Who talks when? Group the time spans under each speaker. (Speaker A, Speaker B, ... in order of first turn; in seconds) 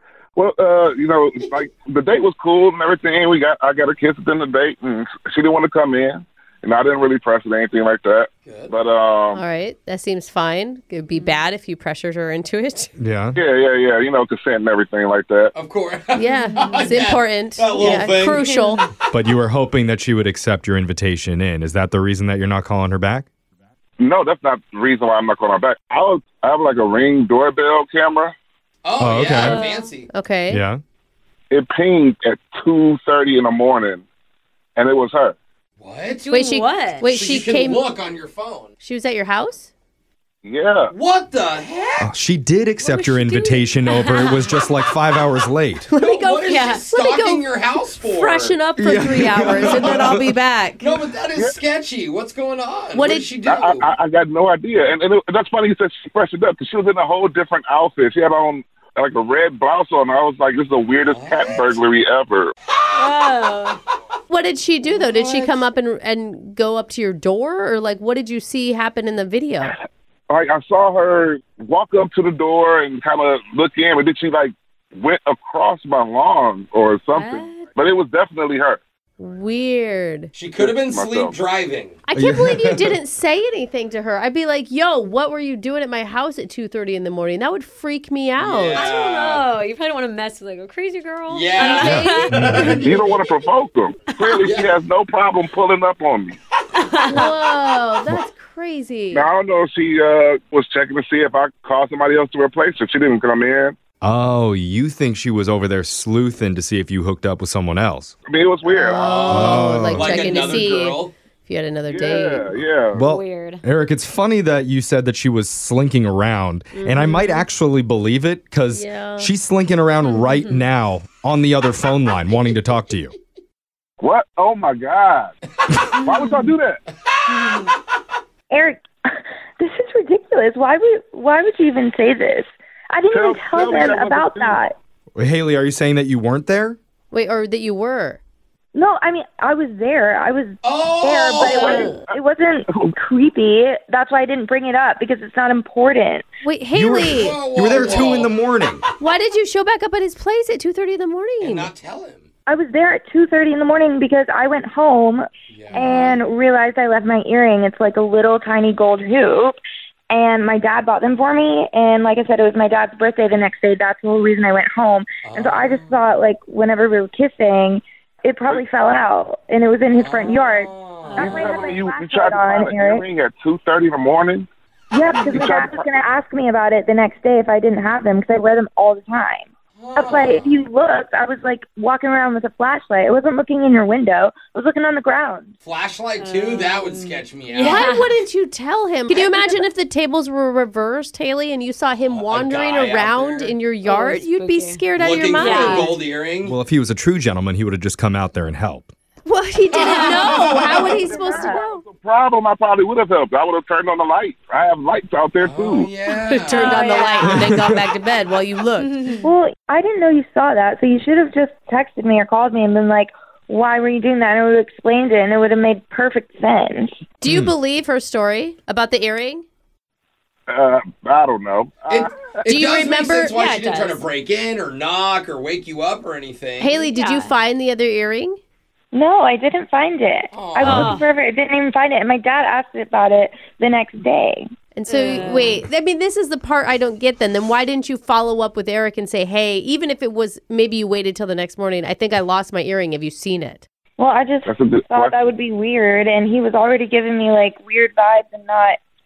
Speaker A: 0.4-9.4, 13.4-15.5, 24.0-28.3, 31.5-34.0, 34.8-35.4, 40.5-40.9, 53.5-62.5, 70.3-78.8, 80.6-81.4, 92.8-96.3, 99.1-103.8, 108.3-109.0, 111.9-112.9, 124.0-125.3, 126.0-126.8, 133.1-134.6, 141.6-142.0, 171.2-174.5, 175.3-175.9, 201.0-205.9, 220.5-222.1, 244.4-245.2
Speaker B: 8.4-8.8, 15.6-18.5, 28.8-30.1, 35.8-38.7, 40.9-42.1, 46.0-48.6, 49.5-50.1, 50.8-53.9, 61.0-61.8, 80.3-82.0, 88.4-89.5, 91.3-93.5, 94.4-94.8, 108.9-111.1, 140.6-142.0, 147.1-148.3, 151.4-152.3, 155.5-156.0, 165.2-166.1, 169.9-171.3, 179.8-180.7, 185.6-188.0, 192.0-193.6, 194.9-196.6, 199.7-201.0, 205.4-207.1, 221.9-226.8, 230.3-231.0
Speaker C: 9.3-12.9, 16.1-18.9, 30.1-30.6, 36.3-37.9, 38.8-39.7, 42.8-44.0, 45.9-47.5, 48.0-51.0, 52.9-53.3, 64.3-69.7, 79.2-80.3, 82.1-88.9, 91.6-92.8, 97.1-99.3, 108.7-112.6, 116.8-117.5, 118.7-119.3, 137.1-138.2, 146.4-147.4, 149.0-151.7, 155.7-156.2, 187.5-196.0, 199.2-201.8, 206.1-209.1, 217.2-219.4, 222.4-223.3, 226.6-228.4, 234.8-243.6
Speaker D: 11.1-11.4, 16.5-16.9, 18.4-18.8, 29.3-29.9, 36.2-37.1, 44.0-44.5, 46.5-46.9, 62.9-63.8, 65.2-65.5, 77.1-77.7, 88.7-93.0, 94.1-94.4, 96.8-97.3, 113.0-113.6, 120.0-120.6, 126.0-126.4, 127.3-127.7, 141.4-141.9, 171.1-171.6, 186.2-188.1, 189.1-189.5, 193.8-194.8, 195.4-196.0, 199.8-200.3, 206.5-207.1, 208.8-209.3, 223.3-224.0, 226.8-227.3, 230.6-231.1, 234.9-235.6
Speaker E: 13.0-13.4, 19.1-23.3, 29.0-29.6, 30.5-30.8, 42.0-45.9, 48.8-50.2, 82.1-83.0, 91.8-92.9, 104.0-108.2, 109.3-110.3, 112.9-123.1, 135.2-136.8, 146.7-148.8, 196.4-198.9, 207.2-207.8, 217.2-217.5
Speaker F: 128.5-134.7, 138.7-146.3, 152.5-159.6, 160.1-173.1, 174.9-185.5, 200.2-201.6, 206.7-207.3, 209.2-217.0, 228.9-234.4, 244.0-248.8